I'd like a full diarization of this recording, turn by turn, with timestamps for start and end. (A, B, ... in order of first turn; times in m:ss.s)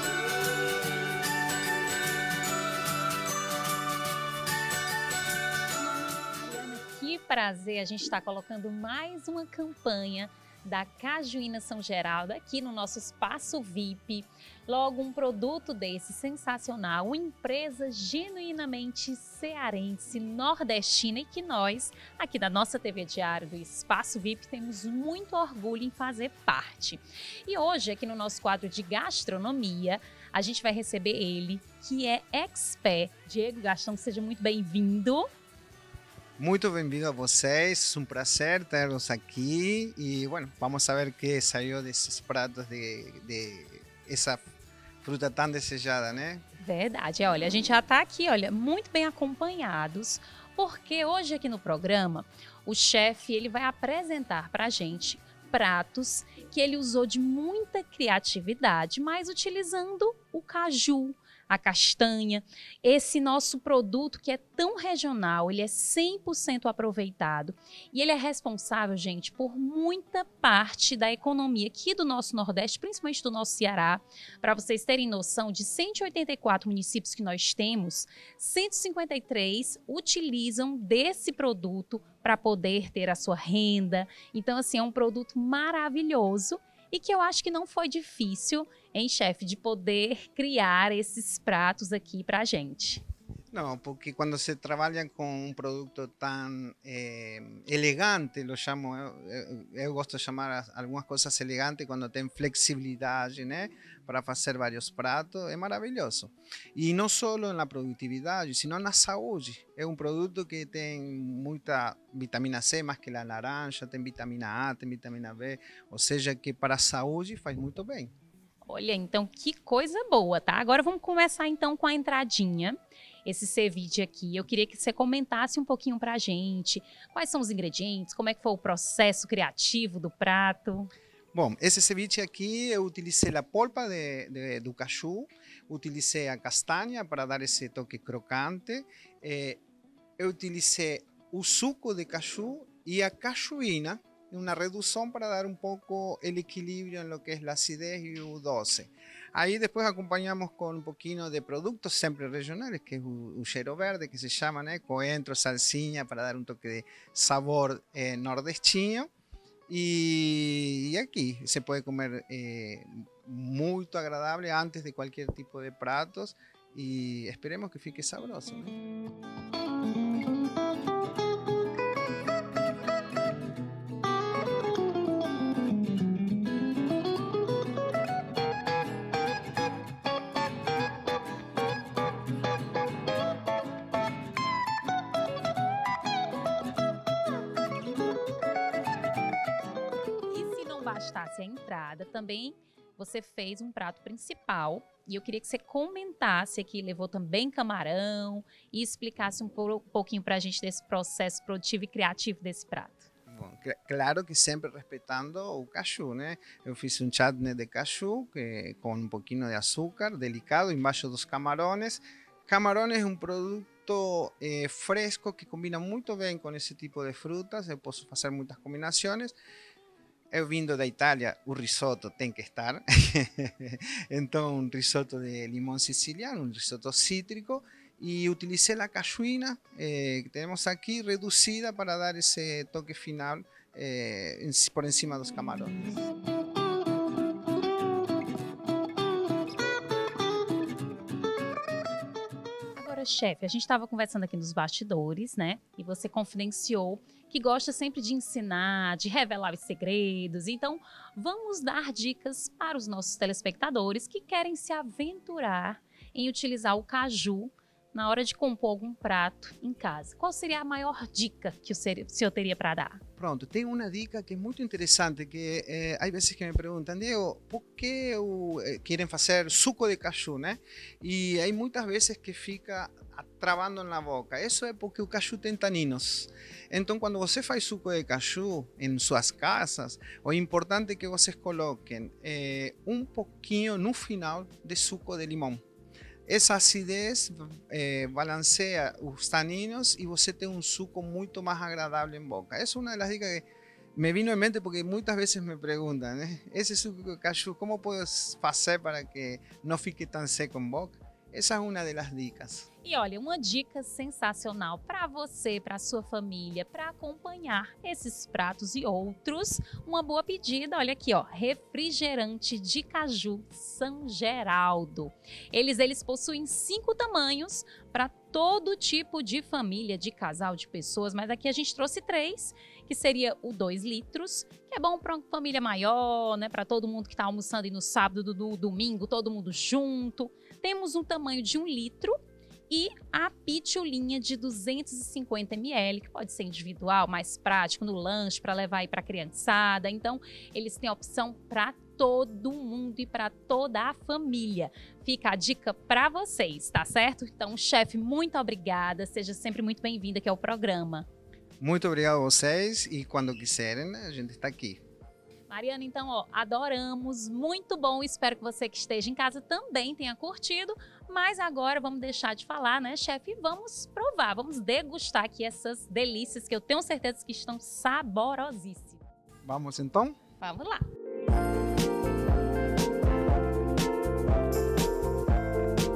0:06.4-0:35.3 A
0:36.4-0:44.4 B
0:45.0-0:46.4 B
0:46.6-1:33.0 A
1:33.5-1:58.1 B
1:58.7-2:10.9 A
2:11.3-2:19.6 B
2:20.2-2:39.1 B
2:39.7-2:48.8 B
3:10.3-3:23.1 A
3:23.3-3:39.4 B
3:40.3-3:55.9 B
4:02.8-4:23.0 A
4:23.2-4:45.6 B
4:46.3-5:02.7 B
5:02.8-5:32.1 A
5:32.7-5:51.1 A
5:51.6-5:54.8 B
5:55.5-6:09.0 A
6:09.4-6:10.2 B
6:10.4-6:10.8 A